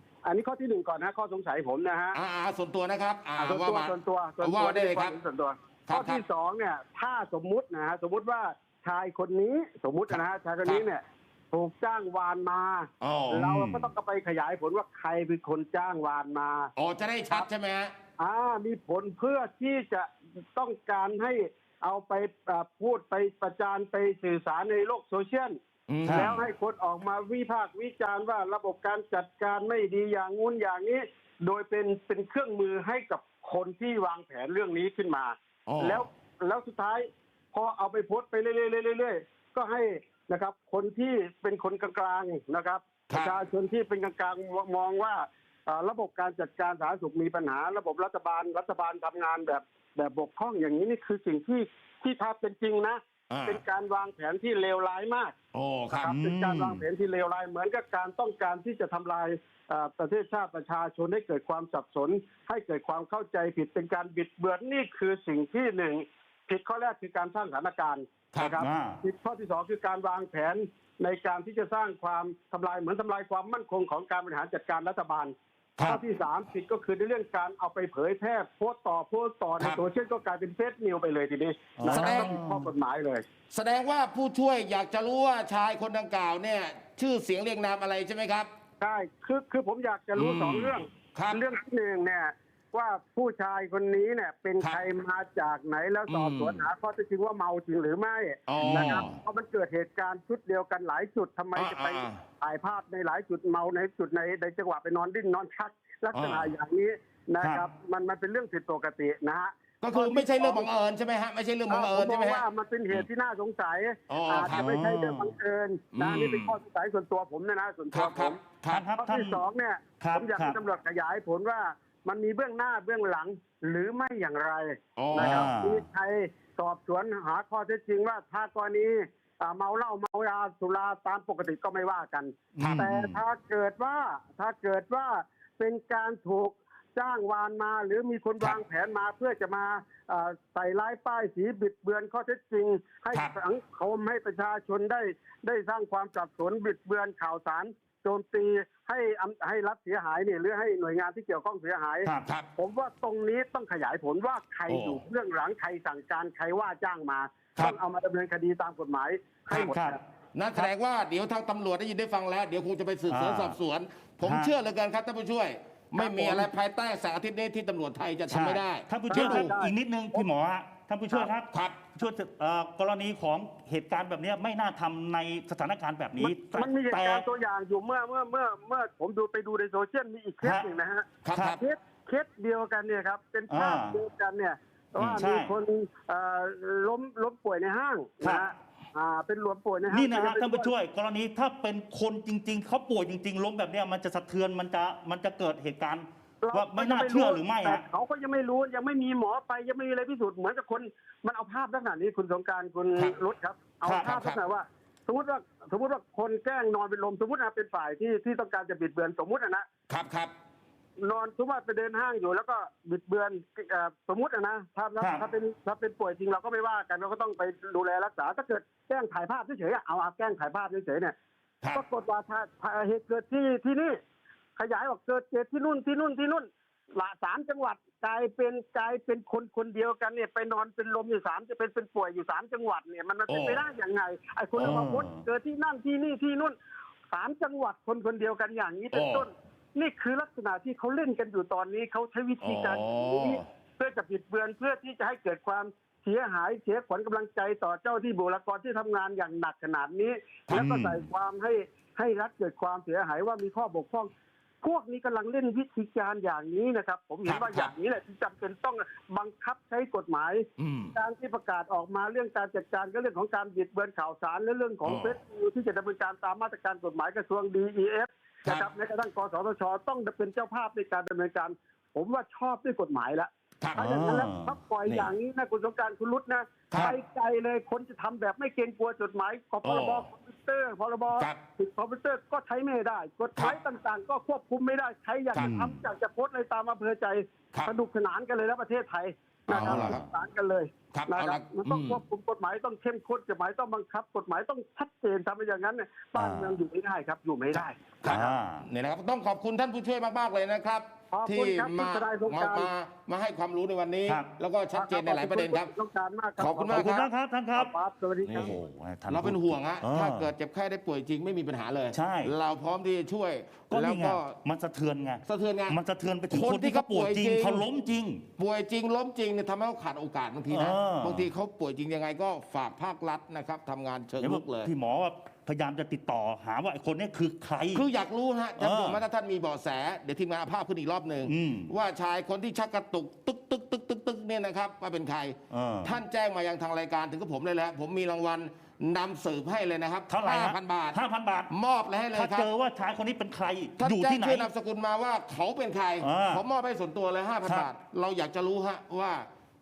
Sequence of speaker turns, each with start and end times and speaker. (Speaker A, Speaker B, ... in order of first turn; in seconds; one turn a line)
Speaker A: 0.2-2.2
Speaker B: 2.1-5.2
Speaker A: 3.4-16.7
Speaker B: 5.9-6.2
Speaker B: 10.1-10.9
Speaker B: 13.0-13.9
Speaker B: 16.8-17.9
Speaker A: 18.2-55.4
Speaker B: 25.9-26.4
Speaker C: 26.1-26.4
Speaker B: 35.7-36.0
Speaker B: 43.1-43.4
Speaker B: 53.3-53.6
Speaker B: 55.5-56.1
Speaker A: 55.9-83.2
Speaker C: 56.1-56.8
Speaker C: 68.6-69.0
Speaker C: 81.8-82.7
Speaker B: 81.9-82.3
Speaker B: 83.5-88.5
Speaker A: 88.8-110.7
Speaker B: 90.2-91.4
Speaker B: 96.1-96.7
Speaker B: 98.5-99.2
Speaker C: 98.6-99.0
Speaker B: 101.5-102.2
Speaker B: 106.1-106.5
Speaker B: 109.8-112.4
Speaker A: 111.7-118.4
Speaker B: 114.1-114.7
Speaker C: 114.5-115.3
Speaker B: 115.9-116.5
Speaker B: 117.9-118.8
Speaker C: 118.7-119.4
Speaker A: 119.0-160.0
Speaker C: 120.0-120.6
Speaker B: 125.0-125.5
Speaker C: 125.2-125.8
Speaker C: 132.6-133.2
Speaker B: 132.6-132.9
Speaker C: 152.0-152.3
Speaker B: 154.7-155.0
Speaker C: 159.5-160.0
Speaker B: 160.3-169.5
Speaker C: 163.1-163.6
Speaker C: 164.2-164.5
Speaker A: 166.0-166.5
Speaker C: 168.3-177.2
Speaker A: 169.1-170.2
Speaker B: 171.5-171.9
Speaker A: 176.2-190.7
Speaker C: 180.4-180.7
Speaker B: 181.2-181.6
Speaker C: 181.3-181.6
Speaker C: 183.5-184.0
Speaker C: 185.0-185.5
Speaker C: 189.9-197.8
Speaker A: 196.4-209.7
Speaker C: 203.8-204.1
Speaker B: 203.9-204.4
Speaker B: 209.9-210.3
Speaker A: 211.0-221.2
Speaker C: 215.0-215.2
Speaker A: 221.7-224.0
Speaker A: 224.6-236.6
Speaker B: 233.3-233.6
Speaker C: 234.6-235.2
Speaker A: 237.1-298.0
Speaker B: 238.9-239.3
Speaker B: 242.4-243.5
Speaker C: 250.5-251.1
Speaker B: 257.2-257.7
Speaker B: 260.6-260.9
Speaker B: 264.9-265.2
Speaker B: 273.6-273.9
Speaker C: 273.8-274.6
Speaker B: 276.7-277.0
Speaker B: 279.6-280.1
Speaker B: 281.1-281.4
Speaker C: 285.4-285.8
Speaker B: 289.5-290.0
Speaker C: 289.6-290.1
Speaker B: 290.9-292.0
Speaker C: 296.2-296.6
Speaker B: 297.5-305.7
Speaker C: 298.1-298.6
Speaker A: 301.1-302.7
Speaker A: 304.7-307.0
Speaker B: 306.4-307.1
Speaker C: 306.7-307.7
Speaker A: 307.5-308.5
Speaker C: 308.2-310.3
Speaker B: 308.3-308.6
Speaker B: 309.1-314.4
Speaker C: 311.9-312.3
Speaker C: 313.7-318.2
Speaker B: 315.2-317.6
Speaker B: 318.4-324.7
Speaker C: 320.5-321.3
Speaker C: 324.2-327.9
Speaker B: 327.7-341.0
Speaker C: 328.6-329.0
Speaker C: 331.3-331.7
Speaker C: 335.5-336.0
Speaker C: 340.1-341.5
Speaker B: 341.5-342.5
Speaker C: 342.1-344.5
Speaker B: 343.8-349.3
Speaker C: 346.0-346.4